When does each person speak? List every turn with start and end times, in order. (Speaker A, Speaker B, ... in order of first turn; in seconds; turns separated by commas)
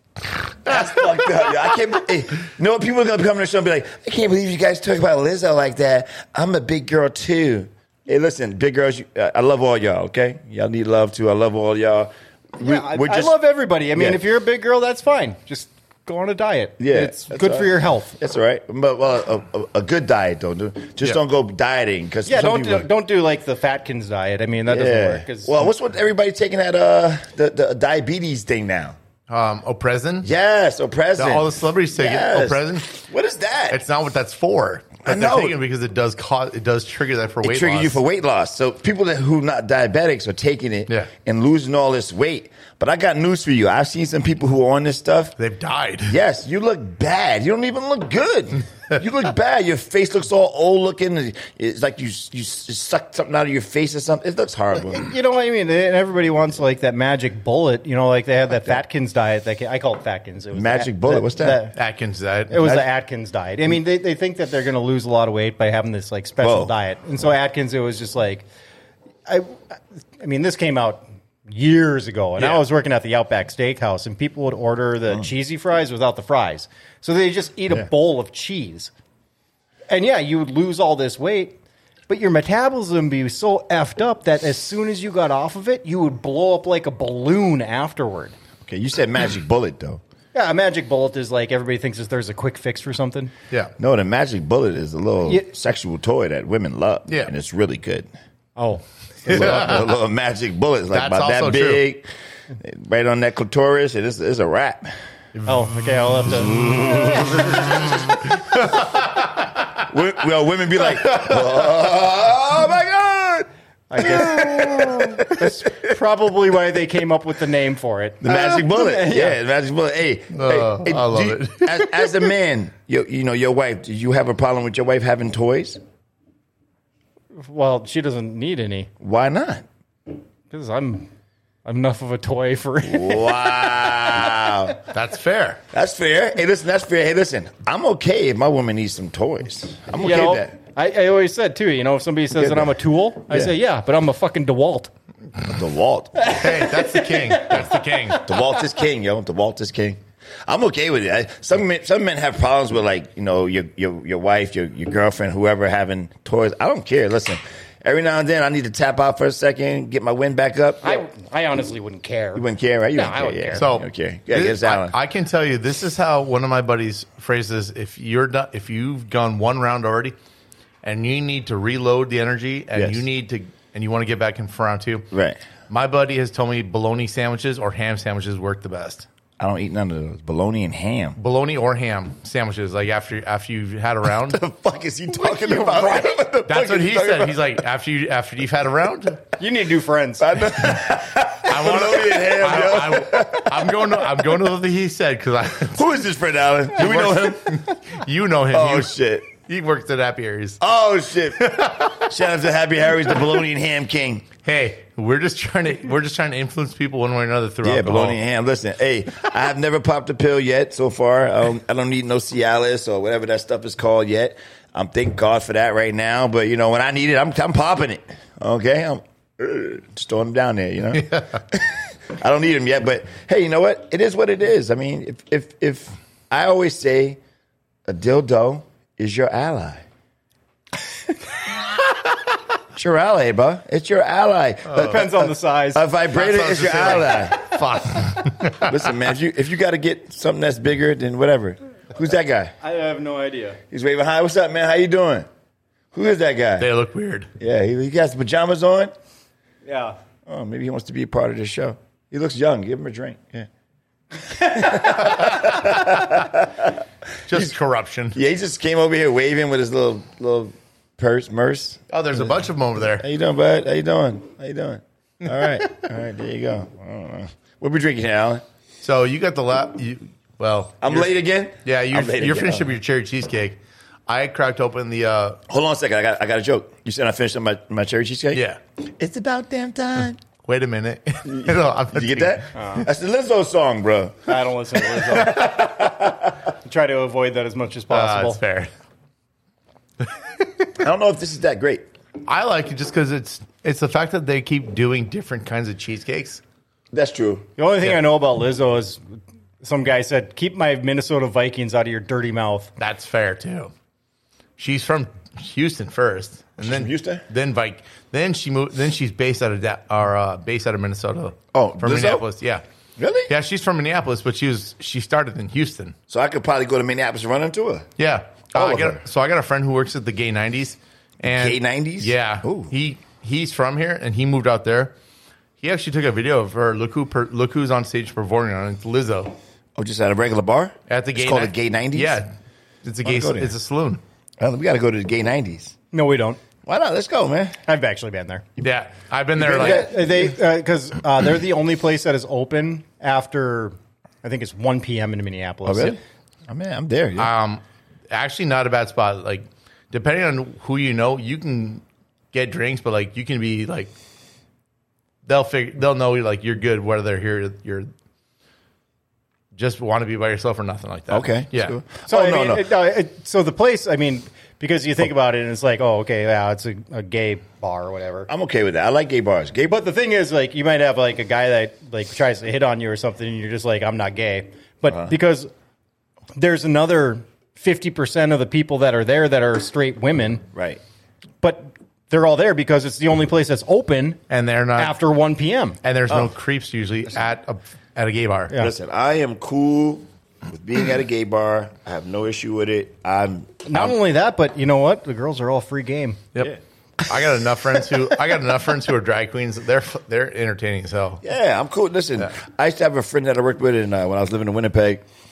Speaker A: 0.5-1.6, Speaker B: 0.6-13.4, Speaker C: 12.6-18.1, Speaker B: 13.9-14.2, Speaker B: 16.8-22.9, Speaker C: 22.3-25.7, Speaker B: 24.7-29.0, Speaker A: 29.3-30.3, Speaker B: 30.2-33.8, Speaker A: 31.2-33.0, Speaker A: 33.7-38.0, Speaker B: 35.0-35.6, Speaker B: 37.4-45.4, Speaker A: 45.4-46.2, Speaker B: 46.1-55.1, Speaker C: 54.8-61.8, Speaker B: 60.5-61.6, Speaker A: 61.8-62.8, Speaker C: 62.5-68.5, Speaker B: 66.4-66.7, Speaker C: 69.3-78.9, Speaker A: 72.4-72.6, Speaker C: 79.9-88.3, Speaker B: 88.7-90.0, Speaker C: 90.3-93.3, Speaker B: 93.8-98.1, Speaker C: 98.6-98.8, Speaker A: 99.3-99.9, Speaker B: 99.3-105.0, Speaker A: 100.9-101.8, Speaker C: 105.5-107.9, Speaker A: 108.3-109.5, Speaker B: 109.8-116.0, Speaker A: 110.9-111.6, Speaker C: 113.9-119.4, Speaker B: 118.2-125.8, Speaker A: 120.3-121.9, Speaker C: 127.4-128.9, Speaker B: 129.0-129.7, Speaker C: 130.5-131.1, Speaker C: 131.7-134.5, Speaker B: 132.8-134.8, Speaker A: 134.9-135.6, Speaker B: 135.7-140.5, Speaker C: 140.0-144.9, Speaker B: 142.3-142.8, Speaker B: 145.4-146.5, Speaker C: 146.2-148.1, Speaker A: 146.3-148.3, Speaker B: 148.2-161.1, Speaker C: 160.8-163.7, Speaker B: 162.3-165.0, Speaker A: 163.6-170.2, Speaker A: 170.8-175.1, Speaker B: 172.8-173.0, Speaker B: 175.1-175.4, Speaker A: 175.7-179.1, Speaker B: 179.4-181.2, Speaker A: 181.2-184.4, Speaker B: 184.2-187.6, Speaker C: 185.3-186.1, Speaker A: 186.5-189.2, Speaker C: 189.4-190.4, Speaker B: 190.2-194.4, Speaker A: 191.4-195.9, Speaker B: 195.7-197.7, Speaker A: 196.8-200.6, Speaker B: 198.5-199.3, Speaker B: 200.6-204.3, Speaker A: 201.4-202.1, Speaker A: 204.4-208.2, Speaker B: 207.6-227.2, Speaker B: 227.9-229.8, Speaker B: 232.7-237.8, Speaker A: 234.7-235.0, Speaker C: 234.7-235.8, Speaker A: 236.1-238.9, Speaker B: 238.5-242.5, Speaker C: 242.6-243.6, Speaker B: 243.7-245.3, Speaker B: 245.9-246.7, Speaker A: 246.6-247.3, Speaker B: 247.4-248.9, Speaker C: 249.7-250.0, Speaker B: 250.3-253.5, Speaker B: 254.2-257.5, Speaker A: 257.3-258.2, Speaker B: 258.1-262.3, Speaker A: 261.9-263.1, Speaker B: 263.0-268.4, Speaker A: 268.8-271.1, Speaker B: 270.8-272.7, Speaker A: 271.6-275.4, Speaker B: 275.5-280.2, Speaker A: 278.3-278.6, Speaker A: 280.4-282.8, Speaker B: 281.2-284.4, Speaker C: 282.6-282.9, Speaker C: 284.3-288.4, Speaker B: 285.1-286.3, Speaker A: 287.9-288.7, Speaker B: 290.8-291.9, Speaker A: 292.2-296.4, Speaker B: 296.9-297.5, Speaker C: 297.6-299.0, Speaker C: 299.6-302.7, Speaker A: 302.8-303.7, Speaker A: 304.6-312.6, Speaker B: 306.6-307.2, Speaker B: 311.5-312.2, Speaker B: 313.0-313.3, Speaker A: 313.3-316.0, Speaker B: 316.1-317.9, Speaker A: 318.0-324.9, Speaker B: 318.5-319.0, Speaker B: 321.3-322.7, Speaker A: 325.6-329.4, Speaker B: 329.8-332.2, Speaker A: 330.9-332.3, Speaker A: 332.8-334.0, Speaker B: 333.1-333.5, Speaker B: 334.4-335.8, Speaker C: 335.9-336.4, Speaker B: 336.6-337.6, Speaker C: 337.7-338.4, Speaker A: 338.6-339.9, Speaker B: 339.4-340.3, Speaker C: 339.5-346.0, Speaker B: 345.7-347.3, Speaker A: 347.2-353.9, Speaker A: 355.2-357.9, Speaker A: 359.6-361.8, Speaker B: 361.1-362.7, Speaker C: 362.1-368.3, Speaker B: 368.3-369.8, Speaker C: 369.7-375.5, Speaker B: 374.9-375.1, Speaker C: 376.4-380.4, Speaker B: 380.5-380.8, Speaker C: 381.4-384.2, Speaker A: 384.3-385.0, Speaker C: 384.8-385.8, Speaker A: 385.8-388.6, Speaker B: 388.6-394.0, Speaker C: 393.6-396.2, Speaker A: 397.1-401.2, Speaker B: 401.2-405.0